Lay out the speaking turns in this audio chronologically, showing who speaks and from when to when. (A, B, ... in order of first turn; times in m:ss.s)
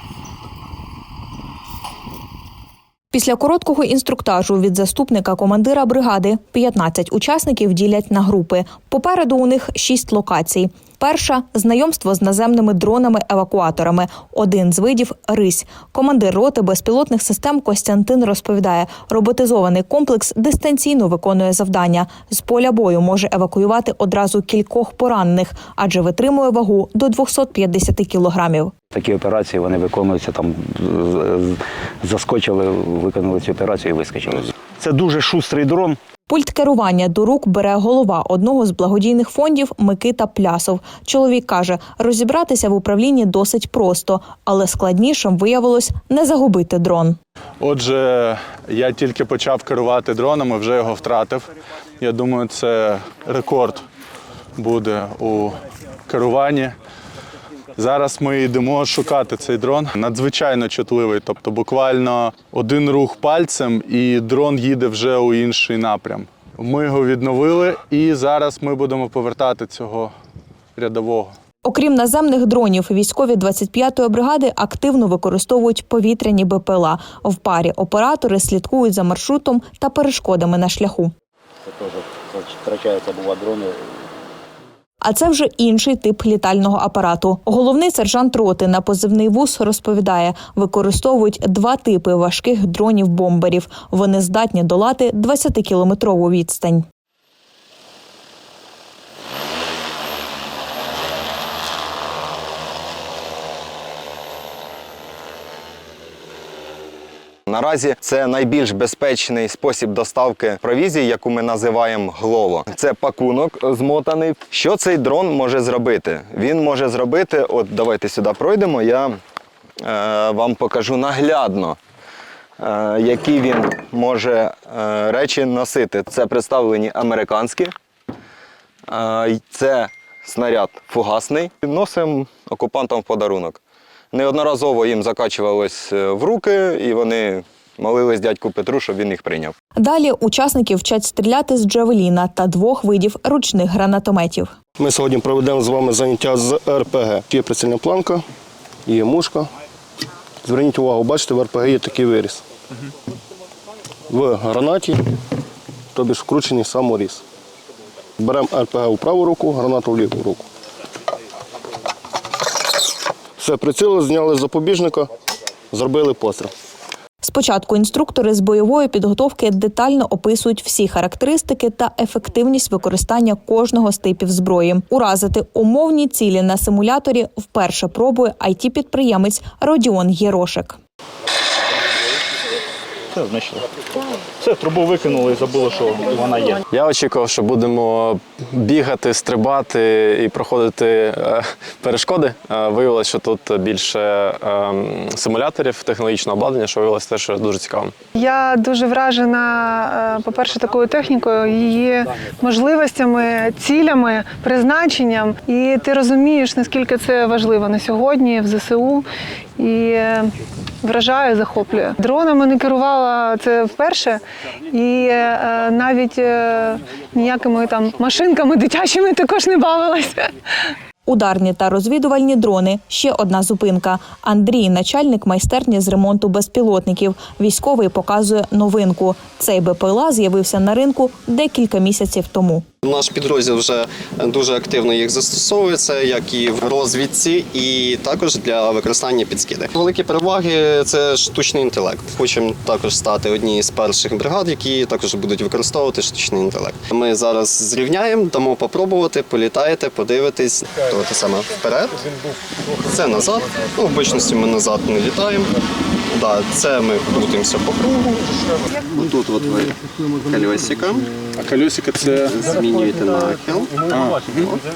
0:03.1-0:28.7 A
0:28.9-0:36.0 B
0:36.3-0:47.2 A
0:47.6-0:51.5 C
0:52.0-0:53.8 C
0:54.6-0:56.7 C
0:57.8-1:10.1 C
1:10.8-1:11.3 C
1:11.6-1:21.1 A
1:21.7-1:23.8 B
1:25.0-1:36.8 A
1:47.5-1:59.2 D
1:59.8-2:01.8 D
2:02.6-2:07.7 D
2:08.9-2:13.6 D
2:14.1-2:19.5 D
2:19.8-2:24.5 A
2:24.8-2:28.2 E
2:28.8-2:29.5 E
2:30.4-2:32.4 E
2:34.1-2:35.0 E
2:35.9-2:37.2 E
2:38.2-2:40.4 E
2:43.4-2:45.1 E
2:45.7-2:46.5 E
2:47.2-3:00.8 A
3:03.1-3:03.6 F
3:04.4-3:06.5 F
3:06.7-3:17.9 G
3:18.2-3:29.0 H
3:29.6-3:30.3 H
3:30.8-3:40.3 H
3:41.0-3:52.6 A
3:52.8-4:12.1 I
4:12.8-4:15.5 I
4:16.1-4:21.1 I
4:21.4-4:22.4 C
4:22.2-4:24.6 I
4:23.9-4:24.5 C